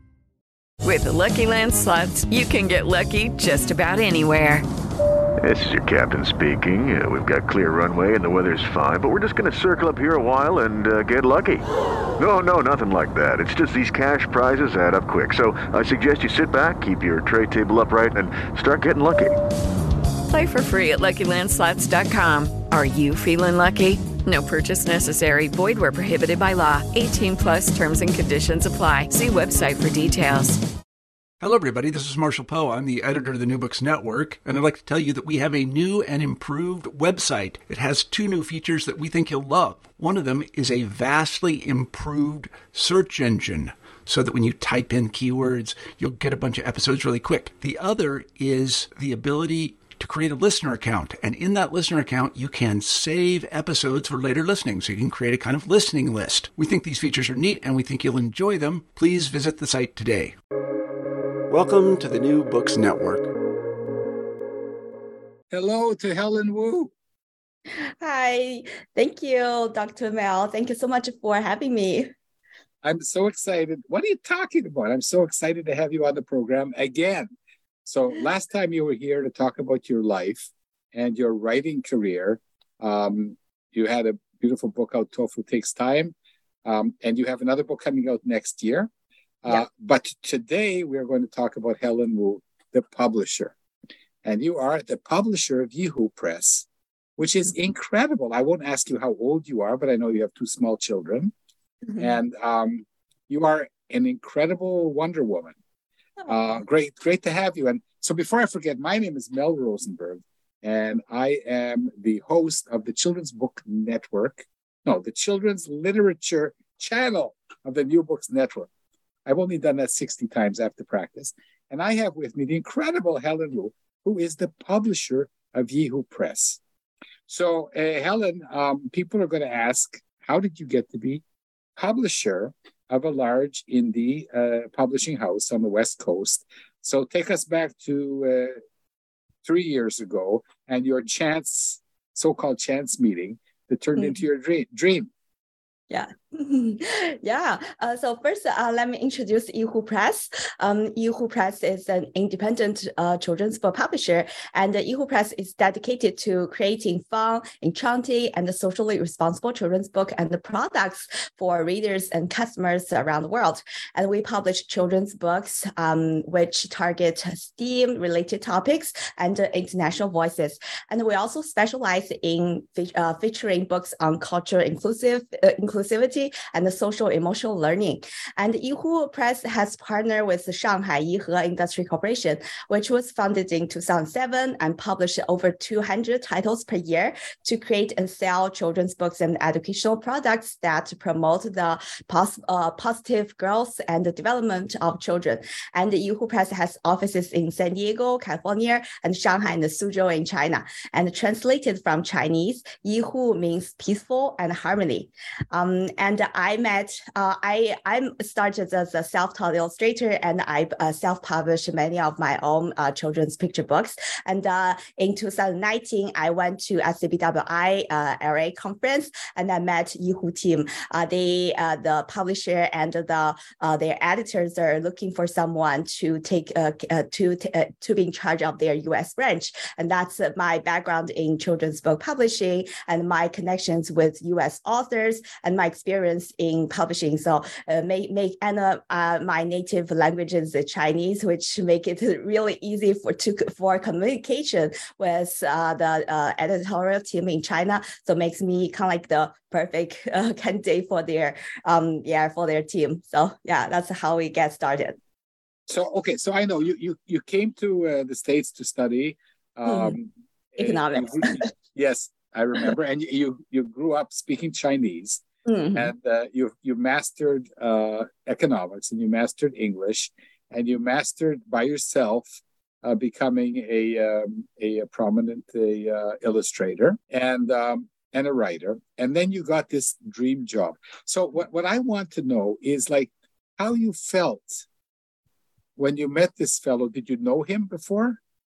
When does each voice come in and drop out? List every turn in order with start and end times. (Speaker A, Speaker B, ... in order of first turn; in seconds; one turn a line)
Speaker A: 0.8-4.6
Speaker B: 5.4-11.7
Speaker B: 12.2-19.4
Speaker A: 20.3-30.6
Speaker C: 31.4-60.3
Speaker C: 61.5-63.3
Speaker D: 65.5-66.9
Speaker E: 68.0-72.1
Speaker D: 72.8-77.3
Speaker D: 77.8-86.1
Speaker D: 86.6-88.9
Speaker D: 89.4-93.5
Speaker D: 94.2-101.3
Speaker D: 102.0-105.5
Speaker D: 106.3-118.7
Speaker D: 119.2-126.6
Speaker D: 127.3-131.2
Speaker D: 131.8-138.6
Speaker D: 139.4-145.1
Speaker E: 145.9-255.0
Speaker D: 255.7-284.6
Speaker E: 259.7-259.9
Speaker E: 260.6-261.4
Speaker E: 265.4-265.9
Speaker D: 285.8-288.2